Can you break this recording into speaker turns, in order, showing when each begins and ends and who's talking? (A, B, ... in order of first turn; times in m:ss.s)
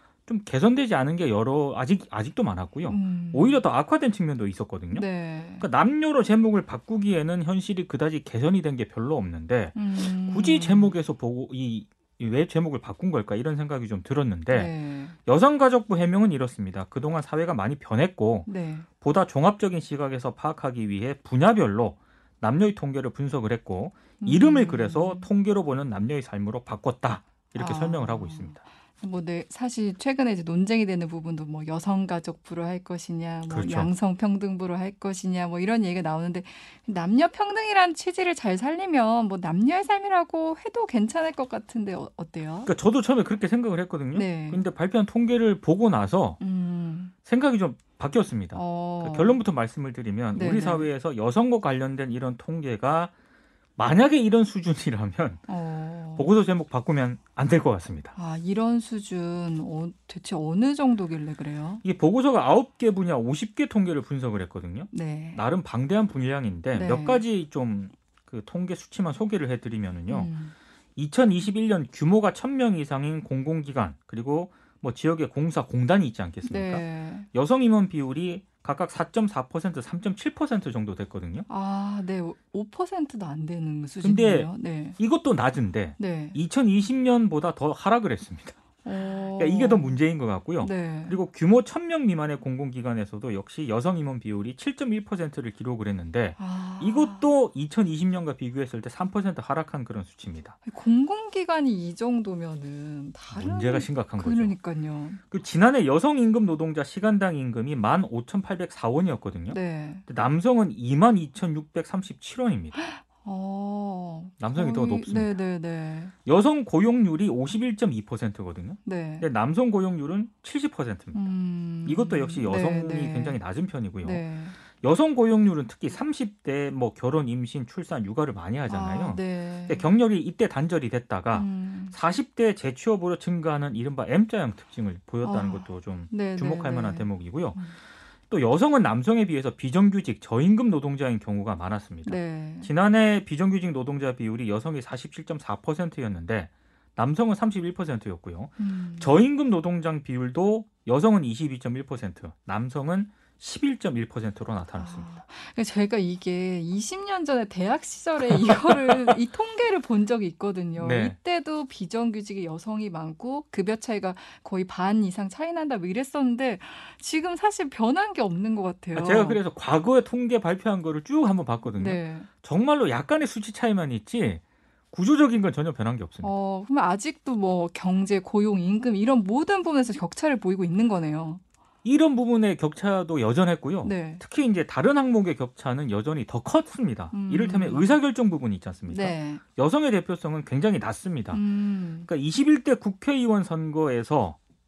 0:00.3-0:14.7 A
0:02.8-0:03.6 B
0:04.9-0:05.6 B
0:09.7-0:10.9 B
0:14.5-0:15.2 B
0:15.2-0:18.5 A
0:18.5-0:18.9 B
0:19.0-0:28.6 A
0:24.2-0:25.3 B
0:27.6-0:42.7 B
0:33.5-0:33.9 A
0:42.6-0:46.4 A
0:44.1-0:44.6 B
0:46.4-0:47.1 B
0:47.2-0:53.1 A
0:48.5-0:49.4 B
0:50.3-0:50.9 B
0:53.8-0:55.5 A
0:55.5-0:56.3 B
0:56.1-0:58.1 A
0:58.1-1:01.8 B
1:01.8-1:10.3 A
1:04.9-1:05.4 B
1:06.7-1:07.2 B
1:10.1-1:10.5 B
1:11.0-1:21.5 A
1:16.4-1:17.3 B
1:21.5-1:25.0 B
1:24.0-1:40.5 A
1:26.0-1:26.4 B
1:28.8-1:30.0 B
1:30.6-1:31.2 B
1:36.4-1:37.3 B
1:40.6-1:45.2 B
1:43.3-1:44.5 A
1:45.3-1:52.8 A
1:49.5-1:50.0 B
1:52.7-1:56.1 B
1:54.4-1:55.4 A
1:56.2-2:01.3 A
1:58.8-1:59.3 B
2:01.1-2:03.4 B
2:01.8-2:04.2 A
2:04.0-2:04.6 B
2:04.7-2:17.6 A
2:08.7-2:09.9 B
2:11.3-2:12.0 B
2:15.2-2:17.8 B
2:18.3-2:35.1 A
2:22.0-2:22.7 B
2:28.6-2:29.1 B
2:34.7-2:49.4 B
2:38.2-2:39.1 A
2:40.8-2:41.2 A
2:48.9-2:56.3 A
2:51.7-2:52.3 B
2:56.2-3:01.4 B
3:01.8-3:11.4 A
3:03.8-3:04.2 B
3:07.1-3:08.0 B
3:08.9-3:09.4 B
3:11.3-3:12.1 B
3:12.0-3:14.4 A